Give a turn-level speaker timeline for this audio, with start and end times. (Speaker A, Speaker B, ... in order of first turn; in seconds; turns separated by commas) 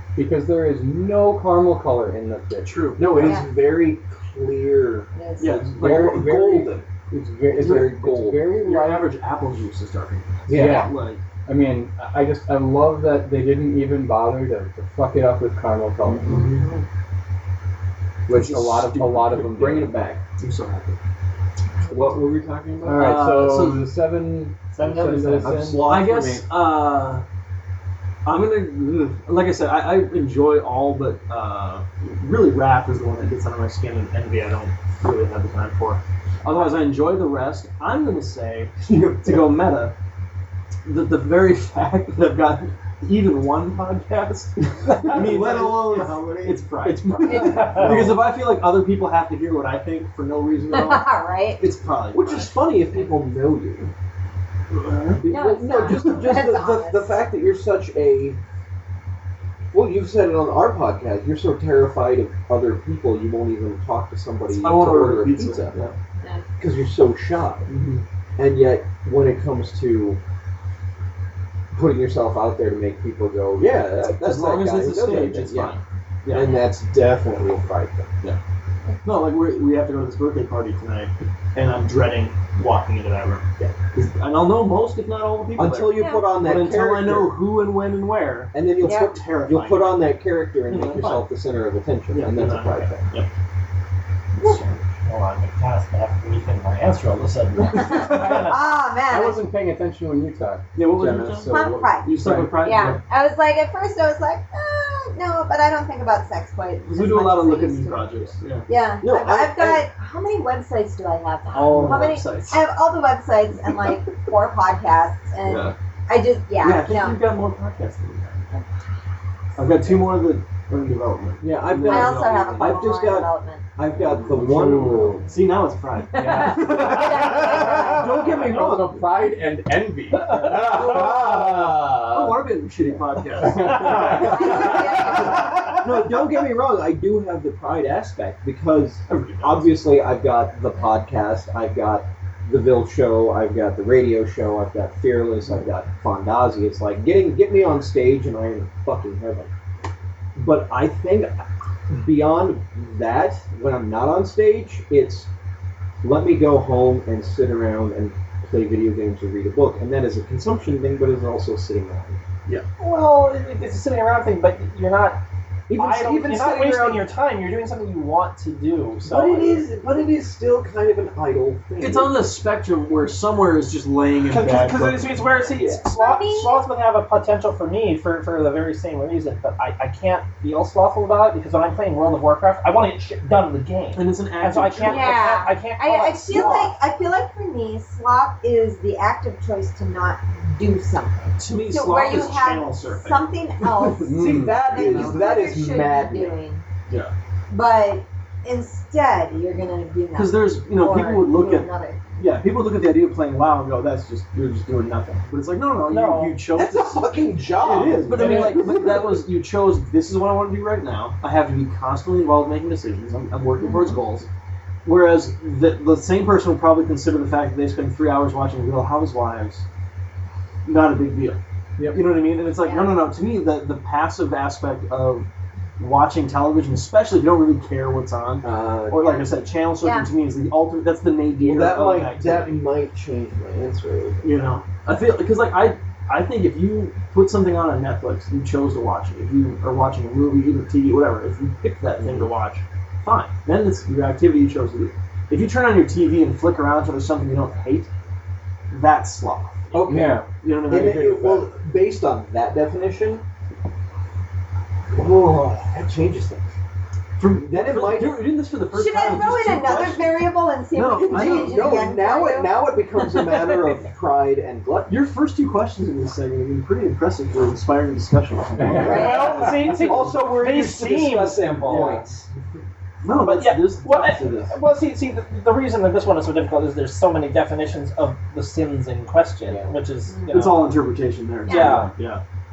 Speaker A: 0.1-3.0, Speaker B: 2.6-3.4, Speaker C: 3.0-6.8, Speaker D: 3.1-3.5, Speaker D: 5.1-5.6, Speaker B: 5.4-6.7, Speaker A: 5.7-9.1, Speaker B: 7.5-11.2, Speaker C: 7.5-8.5, Speaker C: 10.5-10.9, Speaker A: 10.5-16.3, Speaker B: 16.2-16.7, Speaker D: 16.3-16.8, Speaker A: 18.3-19.9, Speaker B: 18.3-19.7, Speaker C: 19.5-20.2, Speaker B: 20.4-21.0, Speaker C: 21.9-23.5, Speaker A: 22.8-25.9, Speaker B: 22.9-23.9, Speaker E: 24.8-25.5, Speaker B: 25.2-27.2, Speaker C: 25.4-26.5, Speaker B: 28.2-39.9, Speaker E: 36.5-36.7, Speaker B: 40.9-52.8, Speaker C: 44.9-48.3, Speaker D: 47.2-47.7, Speaker E: 47.4-47.9, Speaker D: 50.7-51.6, Speaker C: 52.1-53.9, Speaker B: 54.7-55.2, Speaker C: 55.1-58.4, Speaker D: 55.3-57.2, Speaker C: 59.7-65.8, Speaker B: 64.5-66.0, Speaker C: 66.6-67.7, Speaker B: 67.7-68.0, Speaker C: 68.4-70.2, Speaker C: 71.7-78.1, Speaker B: 73.6-76.6, Speaker D: 76.3-76.7, Speaker B: 79.0-90.1, Speaker C: 85.5-87.3, Speaker D: 85.9-86.3, Speaker C: 88.5-93.1, Speaker D: 88.8-89.2, Speaker B: 90.7-91.3, Speaker B: 92.1-93.3, Speaker E: 95.0-98.6, Speaker D: 98.2-99.5, Speaker A: 99.0-103.0, Speaker B: 100.7-103.0, Speaker D: 101.5-117.2, Speaker B: 106.9-108.7, Speaker C: 109.0-109.8, Speaker B: 111.5-112.6, Speaker C: 111.7-112.1, Speaker B: 115.4-115.7, Speaker B: 116.6-118.5, Speaker B: 119.6-123.0, Speaker C: 121.4-125.2, Speaker D: 121.8-123.6, Speaker A: 124.3-125.3, Speaker B: 125.3-128.0, Speaker D: 126.1-128.1, Speaker A: 126.2-131.8, Speaker C: 127.6-129.1, Speaker C: 130.4-132.5, Speaker B: 130.5-131.2, Speaker B: 132.1-134.9, Speaker A: 133.3-135.4, Speaker E: 133.6-134.4, Speaker D: 134.2-135.5, Speaker E: 135.2-135.7, Speaker C: 135.8-149.5, Speaker B: 139.1-139.8, Speaker C: 150.3-151.3, Speaker C: 151.9-155.3, Speaker C: 156.0-162.2, Speaker E: 162.8-165.2, Speaker C: 165.7-167.1, Speaker E: 165.7-169.6, Speaker C: 169.1-172.2, Speaker B: 171.8-175.1, Speaker E: 174.3-186.7, Speaker C: 175.5-175.8, Speaker D: 175.8-176.6, Speaker B: 183.9-185.3, Speaker D: 184.8-196.6, Speaker B: 191.4-193.9, Speaker A: 194.0-195.0, Speaker C: 194.1-196.3, Speaker D: 197.5-202.0, Speaker B: 200.1-214.3, Speaker E: 205.9-206.4, Speaker C: 206.5-209.2, Speaker A: 208.1-208.9, Speaker D: 213.6-214.0, Speaker B: 214.8-219.6, Speaker B: 220.6-232.6, Speaker A: 221.8-222.1, Speaker D: 222.6-223.0, Speaker C: 228.4-229.2, Speaker D: 229.0-230.1, Speaker C: 231.4-234.2, Speaker B: 234.2-247.9, Speaker C: 242.0-242.3, Speaker B: 248.7-251.5, Speaker C: 249.7-253.2, Speaker C: 254.9-256.5, Speaker B: 257.2-261.9, Speaker C: 257.3-258.3, Speaker D: 258.7-262.5, Speaker C: 261.0-265.0, Speaker B: 263.0-263.7, Speaker B: 264.9-269.8, Speaker A: 268.6-269.5, Speaker D: 268.7-269.4, Speaker E: 268.8-271.9, Speaker C: 269.7-272.3, Speaker B: 271.6-272.0, Speaker B: 273.0-274.2, Speaker E: 273.1-280.7, Speaker C: 273.9-274.5, Speaker C: 279.4-279.7, Speaker B: 280.3-282.2, Speaker D: 281.4-281.8, Speaker E: 281.4-281.9